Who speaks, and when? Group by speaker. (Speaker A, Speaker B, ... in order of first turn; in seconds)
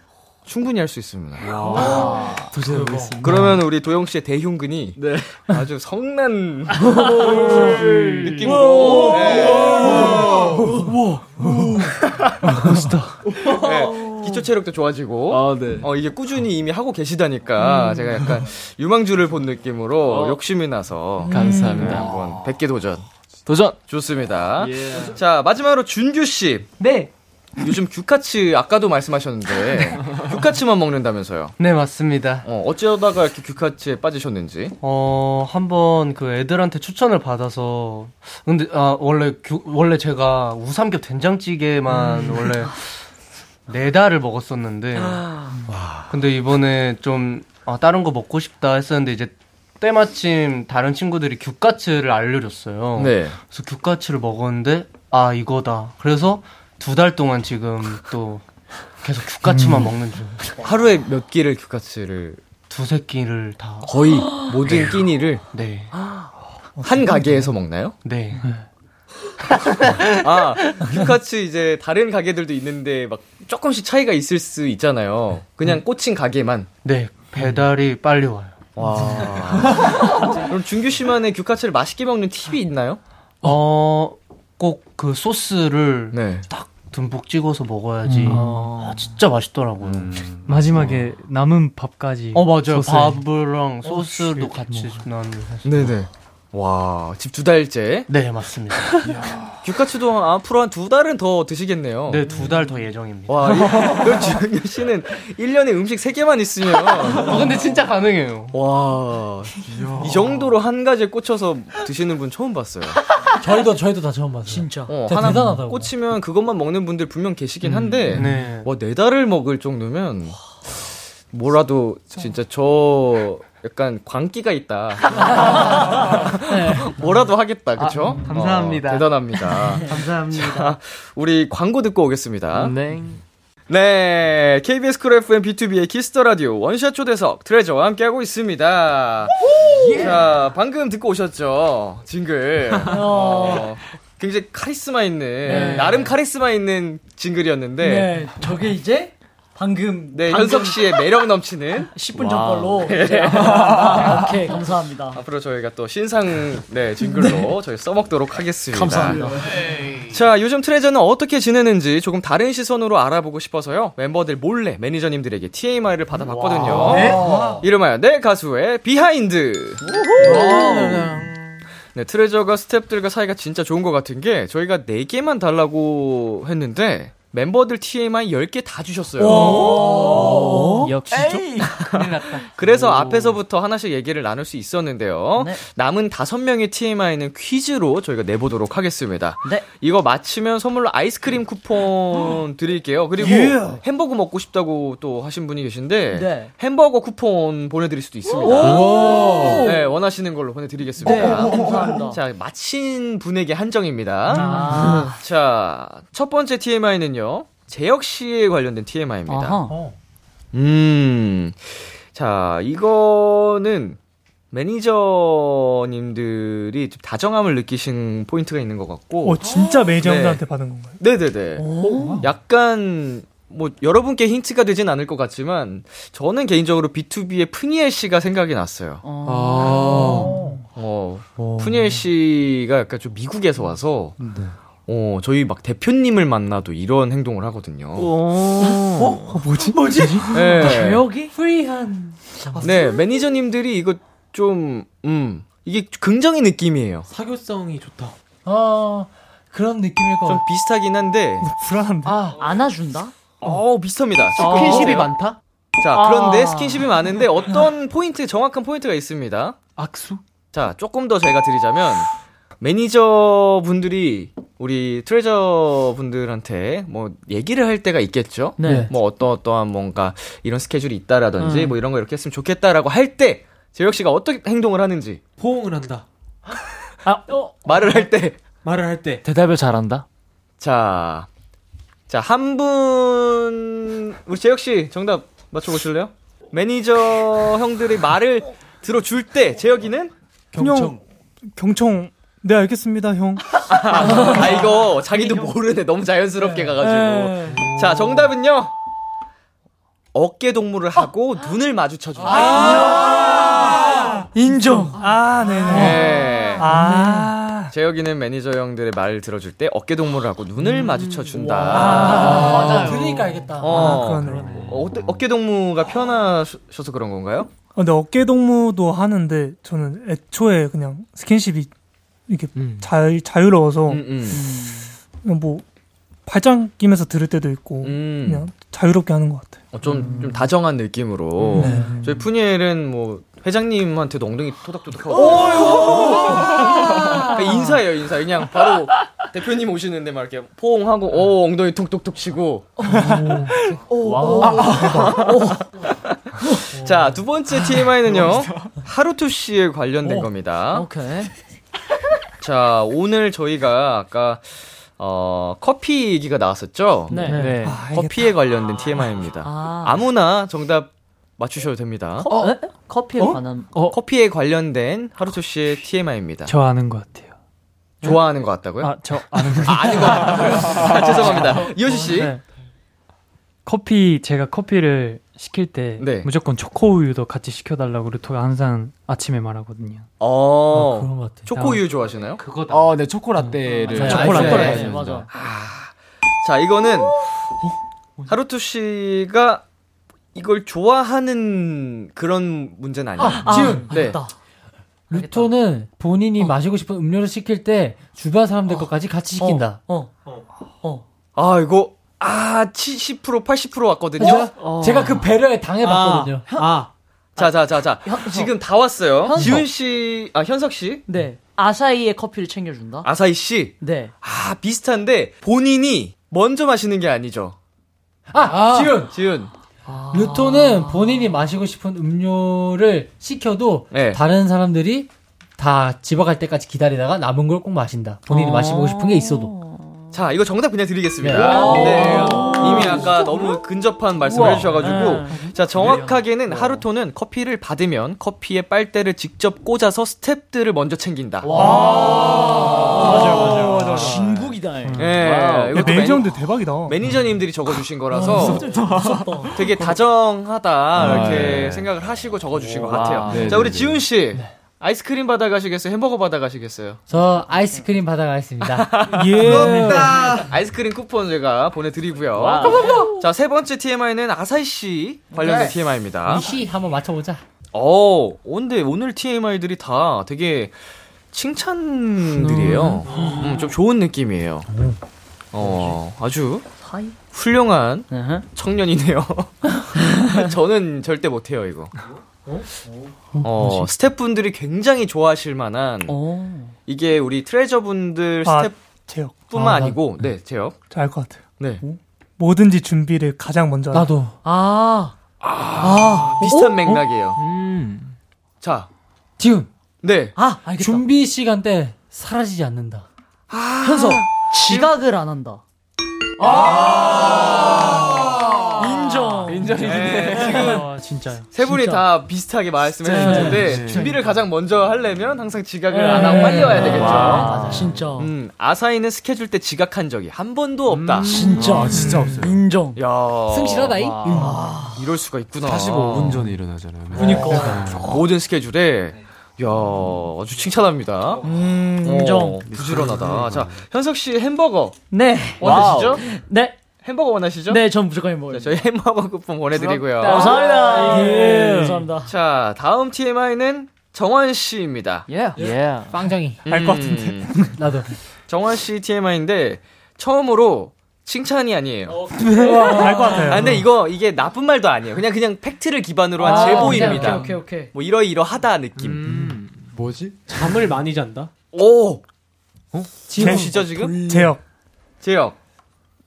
Speaker A: 0.5-1.8, 3.2-10.7, 13.4-23.1, 23.9-26.7, 27.6-31.6, 32.4-34.8, 45.7-46.1, 53.0-53.4, 60.6-62.4, 63.8-65.4, 66.8-68.0, 70.1-76.7, 78.8-83.0, 86.1-86.5, 95.6-98.1, 99.6-102.3, 103.3-107.5, 108.5-113.0, 114.9-120.4, 121.3-132.7, 133.7-148.2, 150.1-154.3, 155.1-159.2, 160.1-170.4, 171.9-180.1, 181.7-198.9, 199.6-209.6, 210.5-214.0, 214.5-219.4, 220.0-220.4, 221.0-229.0, 230.7-234.2, 234.9-239.1, 240.3-241.0, 242.6-247.1, 250.2-251.4, 253.4-255.1, 255.8-259.6, 260.5-275.2, 277.6-278.4, 280.6-281.3, 282.1-290.1, 293.7-298.7, 300.1-303.5, 305.7-306.7, 307.7-313.0, 313.6-317.5, 323.9-324.4, 327.8-328.5, 329.7-342.8, 344.8-350.9, 352.4-357.2, 357.9-362.3, 363.9-366.5, 368.0-369.0, 369.6-372.4, 376.0-376.3, 380.2-382.4, 384.2-387.4, 388.3-389.6, 390.3-394.2, 401.4-404.5, 407.4-411.0, 413.0-417.6, 419.1-419.5, 423.9-424.2, 428.3-429.1, 430.1-441.5, 445.0-448.7, 449.5-457.0, 458.6-466.5, 467.7-470.8, 471.3-474.7, 475.5-476.7, 477.3-481.9, 483.4-486.2, 486.9-488.7, 489.4-490.8, 491.6-491.8, 495.6-497.4, 498.6-498.9, 500.0-500.3, 503.5-504.9, 508.8-510.9, 511.5-517.5, 518.2-521.3, 522.9-524.2, 524.9-526.6, 527.4-531.4, 532.0-535.0, 535.6-536.2, 537.0-537.8, 538.5-540.6, 542.2-545.3, 546.6-547.7, 548.5-552.2, 552.8-559.2, 561.7-562.2, 563.4-564.2, 565.2-565.6
Speaker B: 1.4-3.1, 15.3-15.9, 21.8-22.5, 24.6-25.1, 89.9-91.0, 198.6-199.6, 322.6-322.9, 382.7-385.2, 448.8-449.0, 450.9-451.9, 452.6-454.1, 459.5-460.3, 462.4-463.1, 509.5-510.7, 513.1-514.2, 516.8-518.1, 520.9-522.6, 525.6-528.2, 532.6-533.8, 535.6-536.0, 539.7-542.0, 545.6-546.1, 563.4-564.4
Speaker C: 1.5-3.5, 20.1-20.4, 21.3-22.2, 23.4-23.8, 132.5-133.2, 238.0-239.1, 279.2-280.1, 357.3-357.8, 497.4-498.1, 545.6-546.2, 559.2-559.9
Speaker D: 1.7-2.4, 6.8-7.8, 8.4-11.5, 13.9-14.2, 17.6-18.0, 21.2-22.0, 66.0-66.3, 103.6-103.9, 114.5-114.9, 125.3-127.0, 129.7-129.9, 142.8-143.7, 145.4-146.1, 147.8-151.0, 151.9-155.2, 157.1-157.5, 158.7-159.6, 166.3-167.2, 170.2-171.2, 179.2-180.9, 185.3-185.6, 196.1-196.5, 198.4-199.8, 201.0-202.2, 204.3-205.2, 209.3-209.8, 221.6-222.2, 229.0-230.4, 240.2-241.3, 242.3-242.7, 252.3-253.1, 254.4-255.0, 255.9-256.9, 268.6-268.9, 271.4-271.8, 277.1-277.5, 293.9-295.5, 296.8-297.6, 302.3-303.6, 304.3-305.0, 305.7-307.3, 311.3-313.0, 324.3-324.9, 335.1-336.5, 337.1-337.4, 342.8-345.6, 350.0-351.3, 357.1-357.5, 359.4-360.0, 362.2-363.7, 383.7-385.3, 393.2-394.4, 395.1-395.5, 399.4-400.1, 404.2-404.8, 406.4-406.8, 407.4-408.5, 409.3-409.6, 411.1-413.1, 413.8-414.1, 419.9-421.3, 429.5-429.8, 431.3-433.2, 434.6-435.4, 441.4-446.0, 448.1-449.6, 453.0-453.3, 476.8-477.1, 478.1-478.4, 479.9-480.2, 486.1-486.7, 494.4-495.1, 495.8-496.8, 500.3-501.0, 503.8-505.6, 506.4-508.2, 508.7-509.6, 511.6-512.0, 513.1-513.9, 515.9-518.3, 521.2-523.0, 524.3-525.0, 527.1-528.2, 531.4-532.6, 535.1-536.8, 537.7-538.8, 540.2-542.3, 545.3-545.5, 552.5-553.5, 556.4-557.9
Speaker E: 26.8-27.1, 31.6-32.5, 34.8-42.8, 43.7-45.3, 46.1-58.4, 59.0-60.6, 62.7-64.0, 64.7-65.0, 65.5-65.9, 68.0-68.5, 76.8-79.4, 83.4-90.2, 92.3-96.0, 98.1-99.1, 102.1-104.4, 107.1-108.5, 109.7-110.2, 118.1-118.7, 127.8-130.8, 167.0-167.5, 170.2-171.3, 179.4-181.4, 181.9-182.9, 254.4-255.3, 382.4-382.9, 432.1-432.4
Speaker F: 59.4-60.0, 68.4-68.7, 88.2-88.7, 90.5-93.2, 93.8-95.1, 180.8-181.4, 357.3-357.7, 366.4-367.3, 368.8-370.7, 371.3-372.4, 373.6-380.1, 381.5-381.9, 383.4-384.4, 510.5-511.5
Speaker G: 88.3-88.7, 113.4-115.9, 204.4-205.0, 209.7-209.9, 230.2-230.5, 248.4-250.4, 268.6-268.9, 311.7-314.6, 344.0-344.7, 380.7-381.5, 383.9-384.8, 393.2-393.9, 395.1-399.8, 404.2-406.5, 409.3-409.6, 418.3-419.1, 420.1-429.5, 431.2-432.8, 457.1-460.2, 466.2-467.4, 472.4-473.0, 474.7-475.0, 483.4-483.9, 489.6-489.9, 493.9-494.3, 499.4-499.7, 500.8-503.0, 517.5-517.8, 523.5-524.6, 546.1-546.6, 547.8-548.1, 556.5-557.4, 563.3-564.4
Speaker H: 166.9-167.5, 170.2-171.0, 247.1-248.1, 275.4-276.6, 277.7-278.0, 278.6-279.2, 297.5-298.2, 305.2-305.8, 314.0-314.8, 404.2-405.3, 405.8-406.9, 473.1-473.6, 552.4-553.5, 556.5-557.4, 559.2-559.6, 560.5-561.5
Speaker I: 193.2-193.8, 219.2-221.0, 239.3-240.7, 251.4-252.2, 290.5-291.0, 291.6-294.4, 303.9-304.2, 304.9-307.7, 313.7-314.8, 317.8-321.7, 322.3-324.1, 325.2-325.6, 326.2-329.6, 331.6-332.0, 342.8-343.5, 344.6-345.3, 357.6-358.4, 441.5-444.2, 445.7-447.0, 459.2-460.1, 488.4-489.8, 490.9-494.1, 521.9-522.5, 541.2-542.0, 546.7-547.7, 552.9-553.8, 563.4-564.6
Speaker J: 198.9-199.4, 229.2-230.3, 234.2-234.5, 290.5-291.0, 418.5-419.0, 559.9-560.4